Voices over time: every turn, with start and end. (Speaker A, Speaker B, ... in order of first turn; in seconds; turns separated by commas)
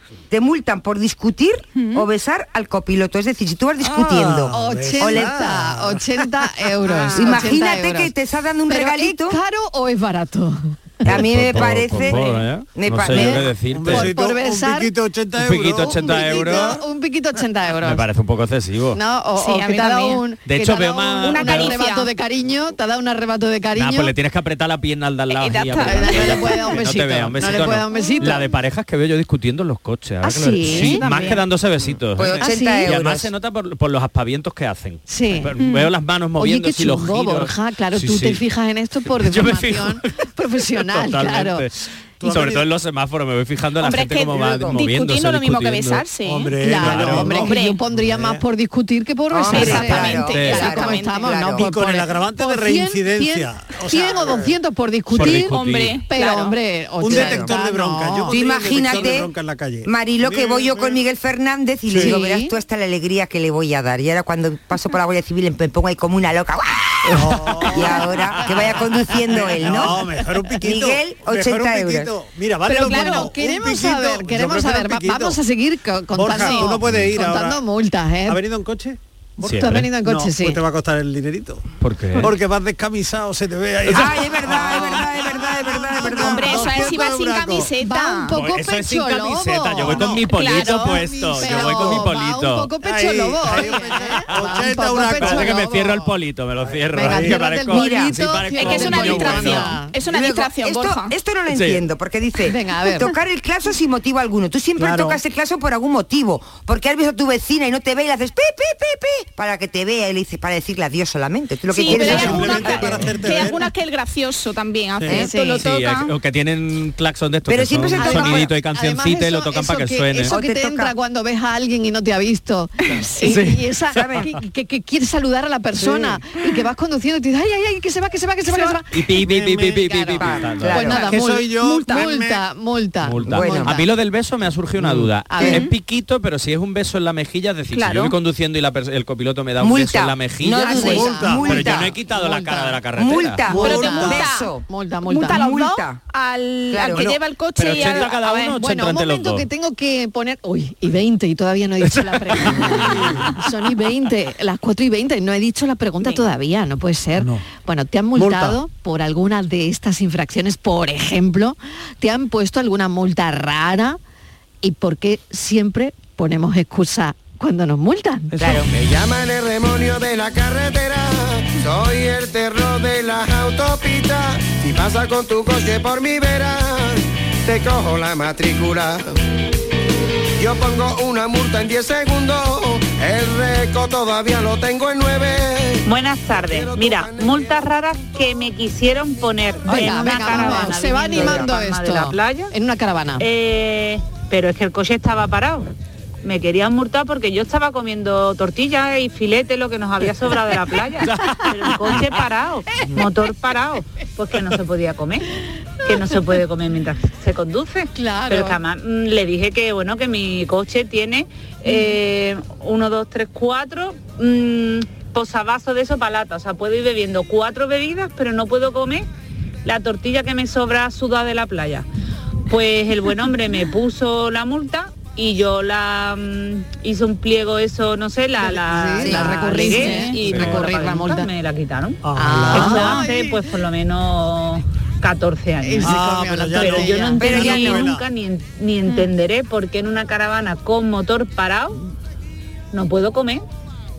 Speaker A: 0.3-5.3, Speaker B: 1.8-2.1, Speaker C: 3.8-6.1, Speaker D: 4.5-8.1, Speaker A: 7.1-9.4, Speaker D: 8.7-11.0, Speaker A: 11.1-12.2, Speaker E: 11.1-14.1, Speaker D: 12.0-12.4, Speaker A: 12.7-13.5, Speaker D: 13.1-14.9, Speaker C: 13.7-16.8, Speaker E: 15.4-16.7, Speaker D: 16.3-18.1, Speaker E: 17.8-19.0, Speaker D: 18.9-24.1, Speaker B: 19.4-20.3, Speaker E: 20.4-21.8, Speaker B: 21.2-22.1, Speaker E: 23.8-38.4, Speaker B: 25.3-26.7, Speaker D: 25.8-28.4, Speaker B: 27.9-28.2, Speaker D: 30.2-31.1, Speaker B: 30.7-31.4, Speaker A: 32.1-33.3, Speaker D: 32.4-32.9, Speaker D: 35.1-35.5, Speaker B: 35.6-35.9, Speaker D: 36.4-41.6, Speaker E: 39.1-40.0, Speaker E: 40.8-46.1, Speaker C: 42.2-42.7, Speaker B: 43.8-46.6, Speaker A: 44.3-44.8, Speaker C: 46.2-48.4, Speaker D: 46.6-58.4, Speaker E: 46.8-47.4, Speaker B: 47.4-47.8, Speaker A: 49.3-51.7, Speaker E: 49.5-50.7, Speaker B: 49.5-51.4, Speaker C: 51.5-54.5, Speaker E: 55.1-56.0, Speaker B: 55.4-56.6, Speaker C: 57.0-61.0, Speaker A: 57.1-57.5, Speaker A: 58.3-59.3, Speaker A: 59.9-70.1, Speaker C: 61.9-62.2, Speaker D: 61.9-62.5, Speaker C: 67.1-75.4, Speaker A: 70.6-72.1, Speaker B: 72.7-73.3, Speaker D: 72.8-78.4, Speaker C: 76.2-77.6, Speaker B: 76.3-76.8, Speaker E: 76.9-77.1, Speaker C: 78.3-81.6, Speaker D: 79.4-80.6, Speaker E: 79.4-79.9, Speaker E: 81.8-82.3, Speaker C: 82.2-87.7, Speaker A: 83.8-86.7, Speaker B: 86.1-88.4, Speaker D: 87.8-96.1, Speaker E: 88.3-92.7, Speaker B: 90.2-91.0, Speaker C: 91.4-92.0, Speaker C: 92.8-95.6, Speaker E: 95.1-99.8, Speaker C: 96.6-97.4, Speaker D: 96.9-100.0, Speaker A: 97.7-98.2, Speaker B: 98.6-101.2, Speaker A: 100.1-113.1, Speaker E: 101.5-101.8, Speaker D: 102.5-103.1, Speaker C: 104.8-105.2, Speaker B: 111.7-116.1, Speaker D: 111.9-112.8, Speaker C: 111.9-113.7, Speaker D: 115.1-115.7, Speaker E: 115.5-120.3, Speaker A: 117.5-118.5, Speaker D: 118.0-129.1, Speaker A: 120.3-120.9, Speaker B: 122.9-123.3, Speaker E: 123.2-123.7, Speaker A: 123.9-124.3, Speaker C: 125.8-126.2, Speaker E: 128.9-131.0, Speaker C: 129.2-129.9, Speaker D: 129.8-133.9, Speaker A: 130.2-131.0, Speaker C: 130.9-132.4, Speaker E: 133.0-143.5, Speaker A: 133.3-133.8, Speaker D: 135.3-135.7, Speaker B: 137.7-138.2, Speaker A: 139.6-141.9, Speaker D: 140.7-142.8, Speaker C: 140.9-141.6, Speaker A: 143.0-144.6, Speaker C: 143.5-144.2, Speaker D: 143.5-145.5, Speaker B: 143.6-144.5, Speaker B: 145.1-148.6, Speaker A: 145.2-146.0, Speaker A: 146.7-147.2, Speaker E: 147.6-149.5, Speaker D: 147.7-164.0, Speaker C: 152.6-153.2, Speaker C: 157.2-157.4, Speaker C: 158.2-158.6, Speaker D: 164.6-168.3, Speaker C: 168.3-168.6, Speaker A: 168.4-168.7, Speaker F: 168.6-179.1, Speaker F: 180.4-187.6, Speaker G: 185.8-192.5, Speaker D: 189.7-193.2, Speaker A: 190.4-191.5, Speaker G: 193.2-195.7, Speaker G: 196.2-205.3, Speaker E: 201.0-202.2, Speaker G: 205.8-219.1, Speaker D: 207.9-208.6, Speaker G: 219.7-221.9, Speaker G: 222.5-241.8, Speaker D: 228.4-231.3, Speaker A: 229.0-229.4, Speaker B: 229.8-230.1, Speaker C: 232.0-233.0, Speaker D: 232.2-233.4, Speaker D: 235.6-237.7, Speaker C: 235.8-238.0, Speaker A: 237.2-237.9, Speaker G: 242.7-243.4